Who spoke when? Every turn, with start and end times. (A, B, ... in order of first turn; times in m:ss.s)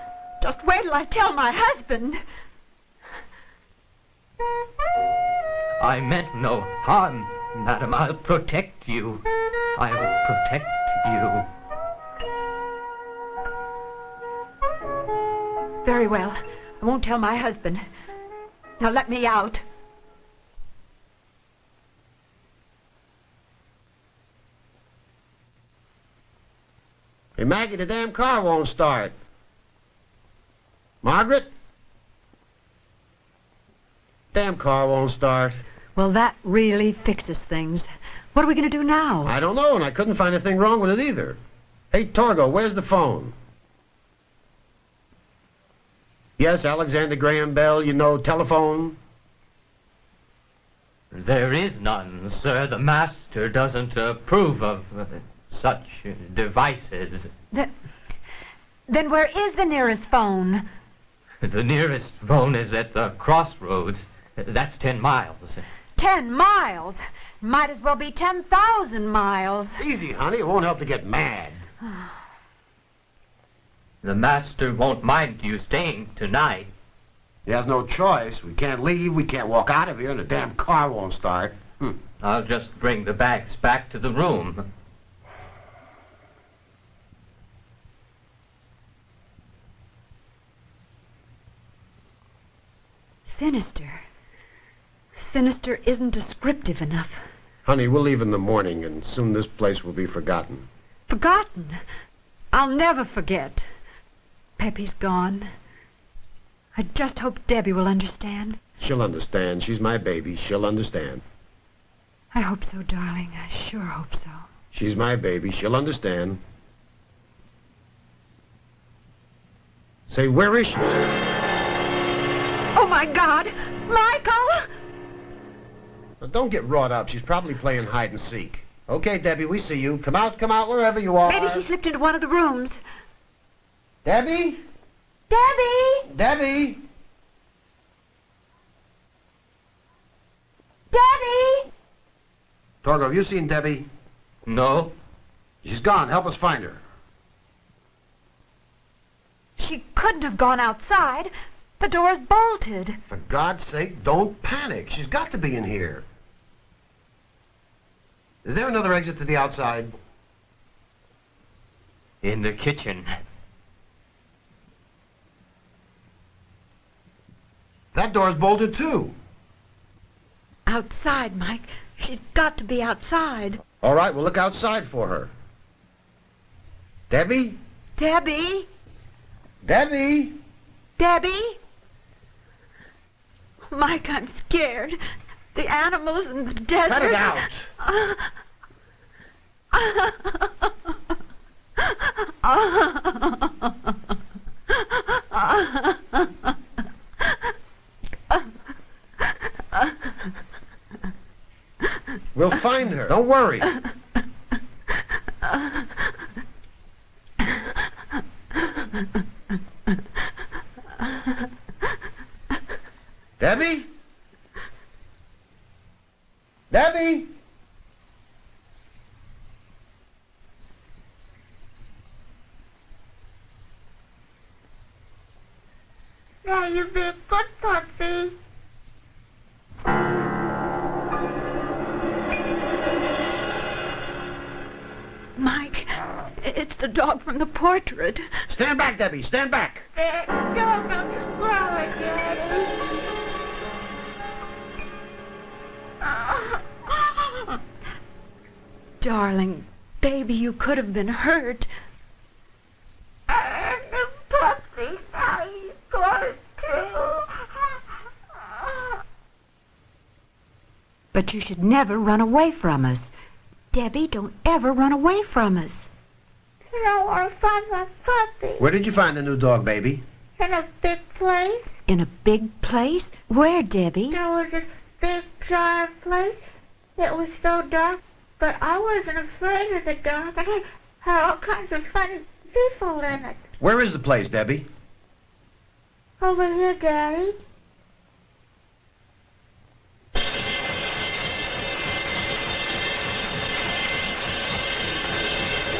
0:00.4-0:02.2 A
0:05.8-0:09.2 B
0:09.8-0:11.5 B
0:15.8-0:17.8 A
0:18.8-0:19.6 A
0:27.4-0:29.2 C
0:31.0-0:31.5 C
0:34.3-0:35.6 C
0:36.0-0:39.4 A
0:39.2-0:41.4 C
0:41.9-0:43.4 C
0:46.4-0:49.0 C
0:51.1-0:57.3 B
0:58.9-1:00.7 A
1:01.4-1:05.7 B
1:06.0-1:09.8 A
1:09.8-1:11.7 C
1:14.0-1:16.7 B
1:17.5-1:22.0 C
1:22.2-1:24.7 B
1:33.3-1:34.0 A
1:35.2-1:37.2 A
1:37.7-1:40.7 C
1:41.1-1:41.8 A
1:42.5-1:43.6 A
1:44.6-1:45.5 A
1:46.8-1:48.6 A
1:48.8-1:51.2 C
1:52.3-1:54.4 A
1:54.7-1:56.4 C
2:00.1-2:01.1 C
2:02.8-2:04.7 A
2:06.2-2:11.6 C
2:11.3-2:12.8 A
2:14.0-2:14.6 C
2:15.3-2:16.0 A
2:16.1-2:16.8 C
2:20.9-2:21.7 A
2:22.8-2:23.9 C
2:24.5-2:25.0 B
2:25.6-2:26.8 C
2:29.6-2:33.0 A
2:33.1-2:36.1 C
2:38.4-2:40.0 C
2:42.2-2:43.1 B
2:47.9-2:49.2 C
2:50.7-2:53.6 A
2:53.8-2:55.3 C
2:57.1-2:57.6 C
2:58.0-2:58.7 A
2:59.6-3:00.4 C
3:01.0-3:01.6 A
3:03.7-3:05.0 A
3:05.6-3:08.3 A
3:06.8-3:07.7 C
3:09.7-3:10.7 A
3:11.8-3:13.9 A
3:14.7-3:16.3 A
3:22.4-3:23.7 C
3:33.4-3:33.9 C
3:36.7-3:37.3 C
3:46.4-3:48.4 D
3:55.4-3:58.3 A
3:58.5-3:59.9 C
4:00.0-4:02.8 D
4:06.3-4:06.6 D
4:09.0-4:11.7 A
4:13.3-4:17.5 D
4:21.1-4:23.1 A
4:23.7-4:25.9 A
4:26.7-4:28.7 D
4:28.6-4:30.0 C
4:30.4-4:31.7 D
4:31.9-4:34.2 A
4:34.1-4:36.4 D
4:37.0-4:43.5 D
4:43.6-4:44.7 C
4:46.2-4:47.4 D